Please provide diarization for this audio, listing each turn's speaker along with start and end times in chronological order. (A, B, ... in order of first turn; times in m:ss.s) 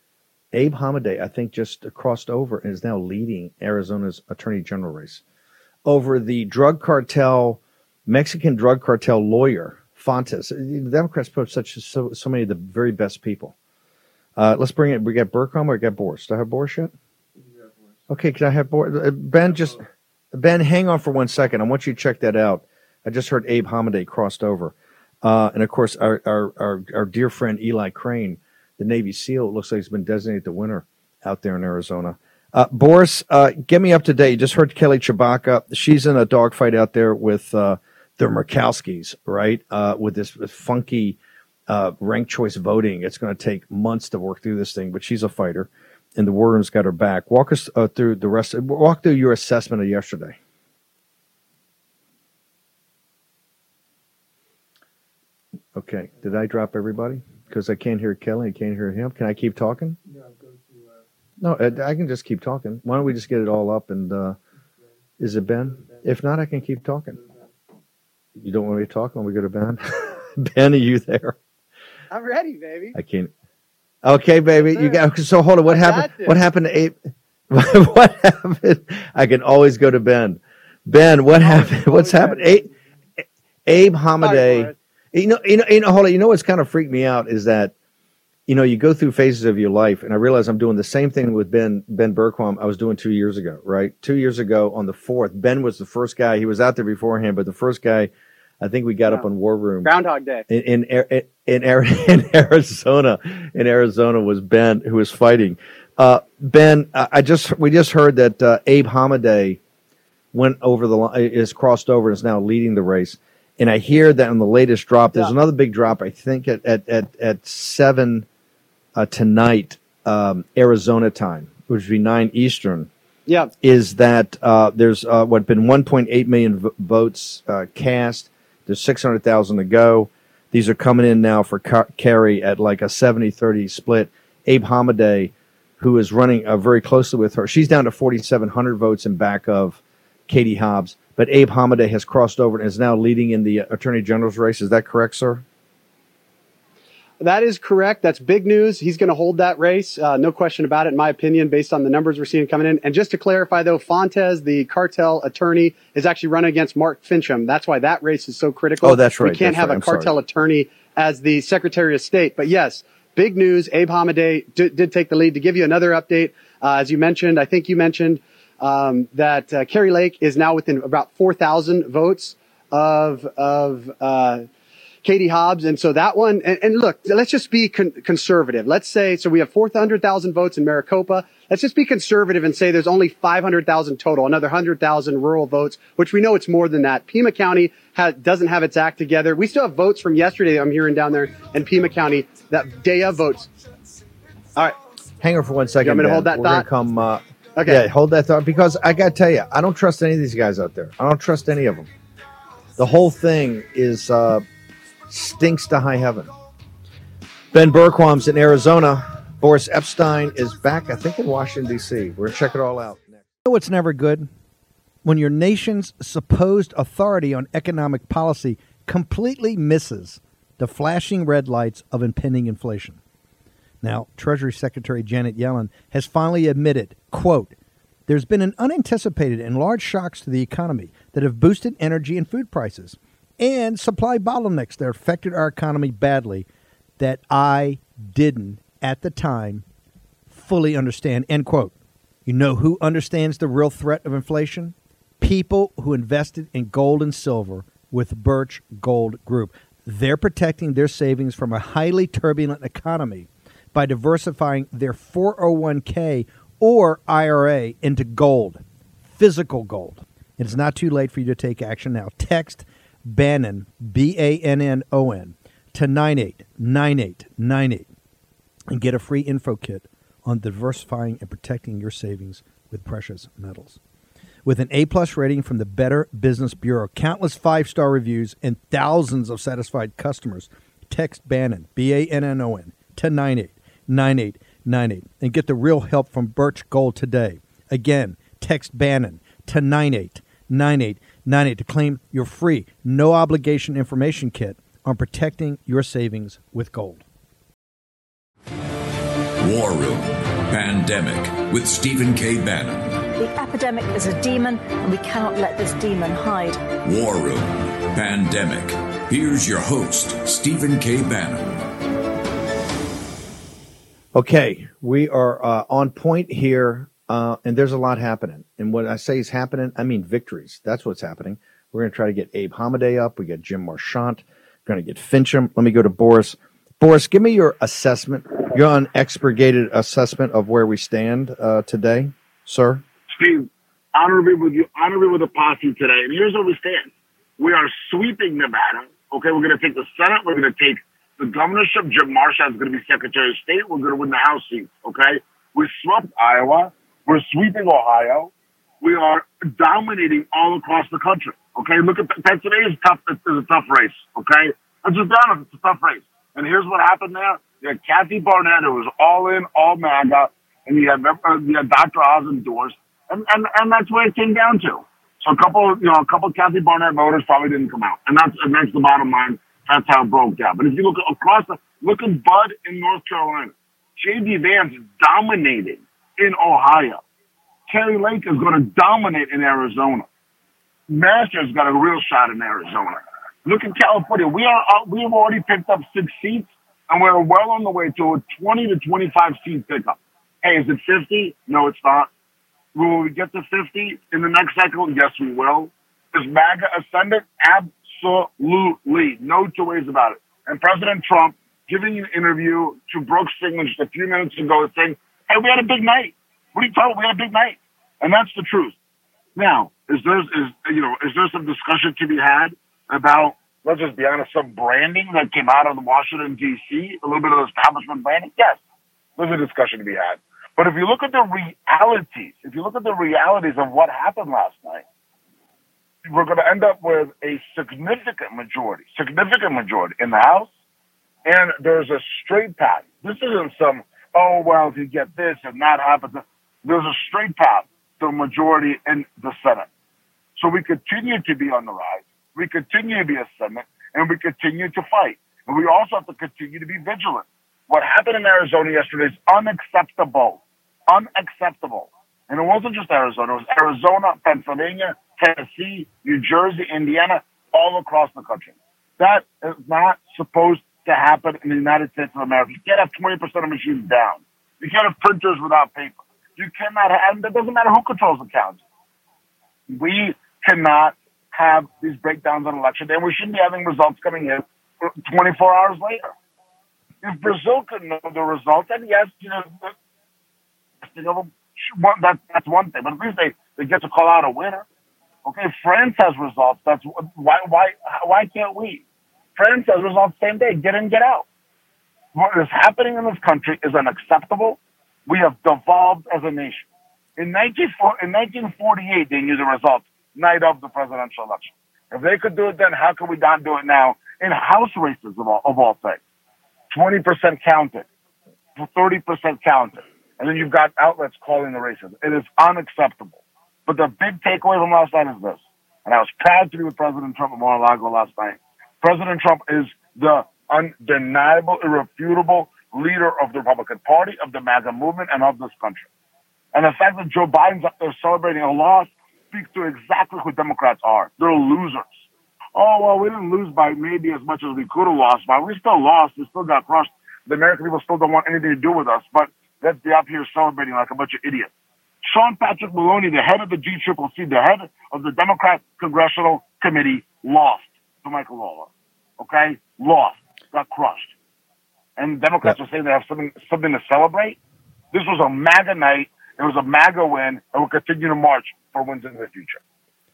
0:00.5-0:05.2 A
0:05.8-0:13.5 A
0:14.4-0:16.9 A
0:18.1-0:41.2 A
0:41.7-0:50.4 A
0:55.7-1:00.0 A
1:01.4-1:04.4 A
1:05.2-1:07.2 A
1:08.4-1:11.4 A
1:12.1-1:12.9 B
1:12.9-1:13.3 A
1:14.0-1:17.0 A
1:14.6-1:15.0 B
1:15.7-1:16.4 B
1:17.5-1:22.7 A
1:21.4-1:22.7 B
1:23.6-1:27.7 A
1:24.2-1:24.7 B
1:28.5-1:39.9 A
1:39.8-1:40.4 B
1:40.5-1:49.6 A
1:50.3-1:58.2 A
1:59.0-2:02.9 A
2:03.6-2:25.4 A
2:27.2-2:54.4 B
2:38.8-2:40.1 A
2:55.0-3:13.5 B
3:15.2-3:21.9 A
3:15.8-3:16.6 B
3:17.6-3:17.8 B
3:22.8-3:24.4 A
3:25.1-3:26.3 A
3:27.5-3:34.3 A
3:35.0-3:43.0 A
3:43.8-3:47.6 A
3:48.1-3:56.5 A
3:57.0-3:59.6 A
4:00.3-4:01.7 A
4:02.2-4:27.9 A
4:28.7-4:33.8 A
4:34.4-4:57.0 A
4:59.4-5:03.1 C
5:03.2-5:06.6 D
5:06.8-5:11.7 C
5:14.1-5:32.8 A
5:33.1-6:17.0 E
6:17.7-6:20.0 E
6:20.9-6:32.1 E
6:32.7-6:48.7 E
6:49.4-6:58.6 E
6:59.2-7:04.8 E
7:06.1-7:10.5 E
7:11.2-7:19.7 E
7:20.4-7:48.6 E
7:49.7-7:56.1 E
7:57.0-7:59.7 E
8:00.8-8:04.6 E
8:05.2-8:08.8 E
8:09.4-8:11.2 E
8:12.1-8:26.0 E
8:26.7-8:27.8 E
8:28.6-8:45.9 E
8:46.5-8:51.9 E
8:52.5-9:01.5 E
9:02.0-9:11.1 E
9:12.0-9:14.4 E
9:14.9-9:19.6 E